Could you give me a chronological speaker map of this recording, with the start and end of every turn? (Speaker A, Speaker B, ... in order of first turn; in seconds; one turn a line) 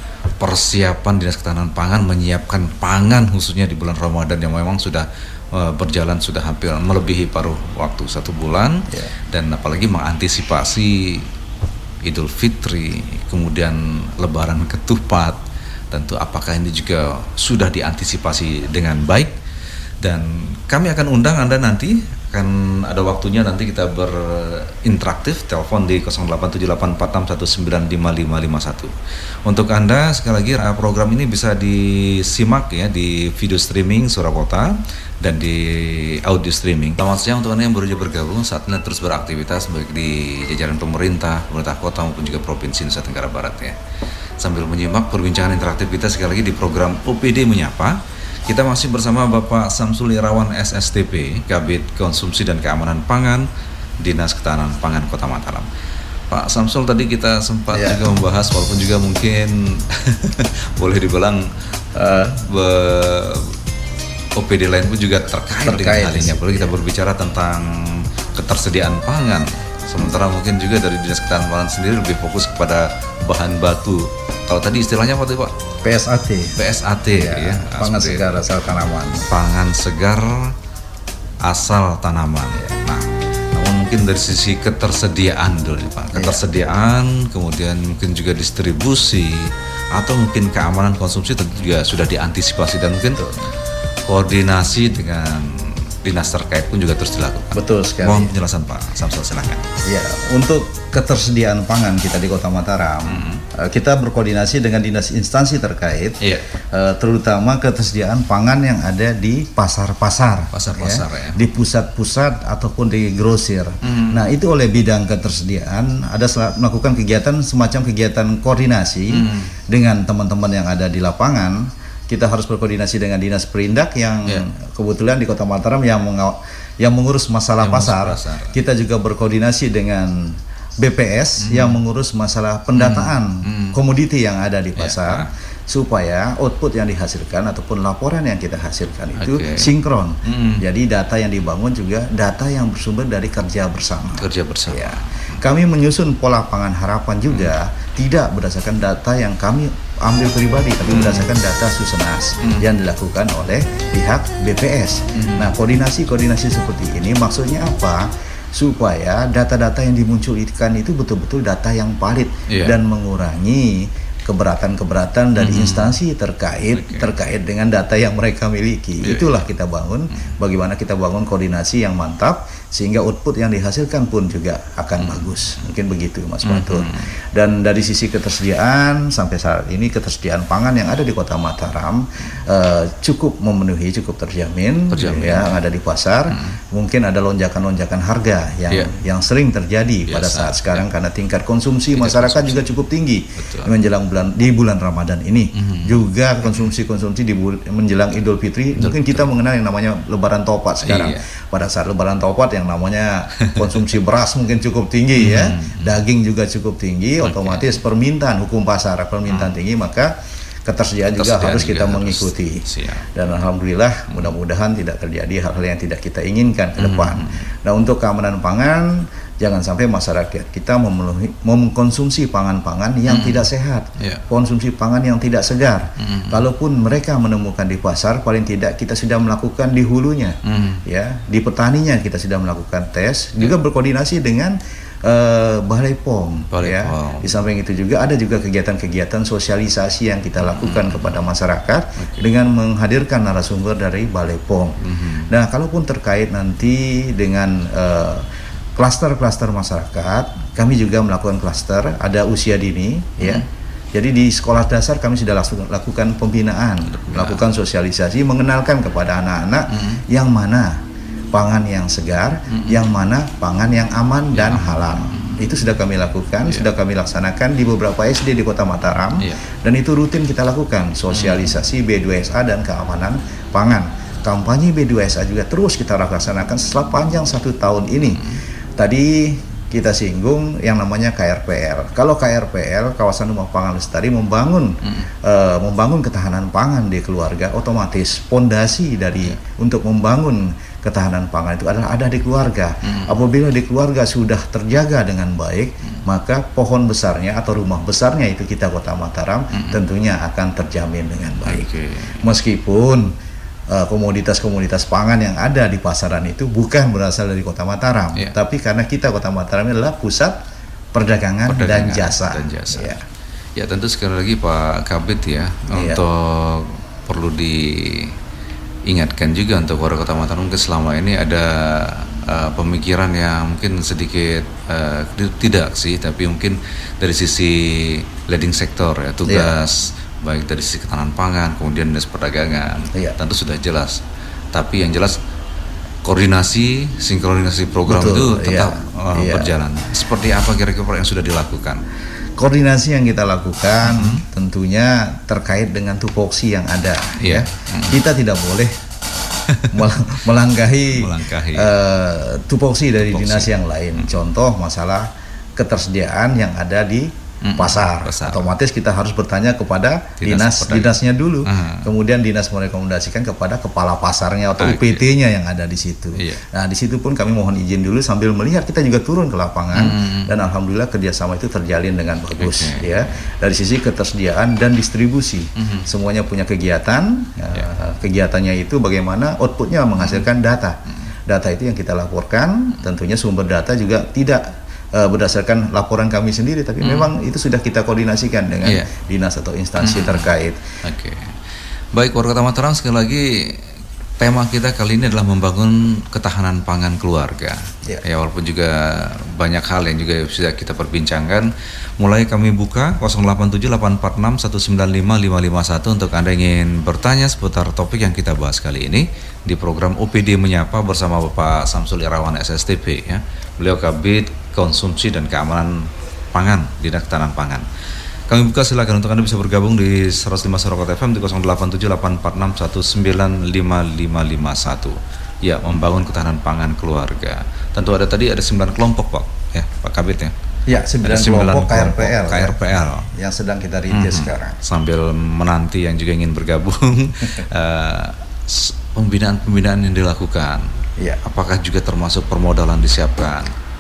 Speaker A: 0.4-11.3
Speaker A: 12.0-15.4
Speaker A: 15.9-19.4
Speaker A: 20.0-28.9
Speaker A: 29.5-43.8
Speaker A: 44.4-53.5
Speaker A: 54.0-55.7
Speaker A: 56.3-61.5
Speaker B: 57.7-58.0
Speaker B: 62.0-62.4
Speaker A: 62.1-63.6
Speaker A: 64.3-75.5
Speaker B: 65.5-66.7
Speaker B: 75.8-76.6
Speaker A: 76.6-78.5
Speaker B: 77.1-79.3
Speaker A: 79.3-80.5
Speaker A: 81.5-93.2
Speaker B: 86.1-86.5
Speaker B: 93.2-93.5
Speaker A: 94.1-99.7
Speaker B: 97.5-98.3
Speaker B: 99.9-106.2
Speaker A: 103.0-103.4
Speaker A: 106.2-106.5
Speaker B: 106.7-210.1
Speaker A: 110.5-111.4
Speaker A: 113.8-114.2
Speaker A: 119.1-119.5
Speaker A: 127.6-128.6
Speaker A: 131.4-131.8
Speaker A: 132.8-133.8
Speaker A: 134.8-135.3
Speaker A: 139.2-139.7
Speaker A: 140.2-140.6
Speaker A: 144.2-145.4
Speaker A: 150.9-151.3
Speaker A: 152.4-152.7
Speaker A: 155.2-155.5
Speaker A: 162.5-162.8
Speaker A: 165.4-166.0
Speaker A: 166.7-167.1
Speaker A: 169.0-169.5
Speaker A: 175.0-175.2
Speaker A: 176.4-177.1
Speaker A: 184.9-185.6
Speaker A: 186.3-186.6
Speaker A: 190.1-190.9
Speaker A: 191.9-192.7
Speaker A: 193.4-193.7
Speaker A: 195.5-196.7
Speaker A: 198.8-199.3
Speaker A: 200.8-201.3
Speaker A: 205.2-206.0
Speaker A: 207.2-207.8
Speaker A: 209.3-209.6
Speaker B: 210.7-212.6
Speaker A: 211.1-213.1
Speaker B: 213.1-244.8
Speaker A: 216.8-217.4
Speaker A: 223.1-223.5
Speaker A: 224.0-224.2
Speaker A: 226.0-226.4
Speaker A: 230.4-230.8
Speaker A: 236.5-237.3
Speaker A: 240.4-241.2
Speaker A: 242.0-242.2
Speaker A: 244.8-245.3
Speaker B: 245.3-260.8
Speaker A: 253.2-253.5
Speaker A: 256.9-257.4
Speaker A: 259.7-260.0
Speaker B: 261.3-278.2
Speaker A: 262.5-262.9
Speaker A: 264.3-265.4
Speaker A: 271.1-271.5
Speaker A: 278.1-278.4
Speaker B: 278.8-301.7
Speaker A: 284.8-285.1
Speaker A: 292.8-293.1
Speaker A: 299.5-299.8
Speaker A: 301.4-302.3
Speaker B: 302.2-303.1
Speaker B: 303.7-310.4
Speaker B: 310.9-313.0
Speaker A: 311.5-313.1
Speaker A: 313.6-318.1
Speaker B: 315.7-316.0
Speaker A: 318.9-334.0
Speaker B: 329.3-329.5
Speaker A: 334.5-335.2
Speaker A: 336.0-341.8
Speaker B: 337.9-339.5
Speaker B: 342.4-348.7
Speaker A: 343.8-344.2
Speaker A: 347.2-348.0
Speaker A: 349.5-350.0
Speaker B: 349.7-390.6
Speaker A: 350.9-351.7
Speaker A: 353.0-354.2
Speaker A: 357.4-358.5
Speaker A: 360.2-360.9
Speaker A: 361.4-361.9
Speaker A: 364.6-365.1
Speaker A: 366.2-366.4
Speaker A: 369.7-370.3
Speaker A: 372.4-373.2
Speaker A: 375.6-375.9
Speaker A: 380.0-380.2
Speaker A: 386.8-387.1
Speaker A: 388.6-388.9
Speaker A: 389.8-390.3
Speaker A: 390.8-391.4
Speaker A: 391.9-393.6
Speaker A: 394.2-417.6
Speaker A: 418.3-430.3
Speaker B: 430.7-432.6
Speaker A: 431.0-433.1
Speaker B: 433.1-434.6
Speaker A: 433.9-440.7
Speaker A: 441.2-443.6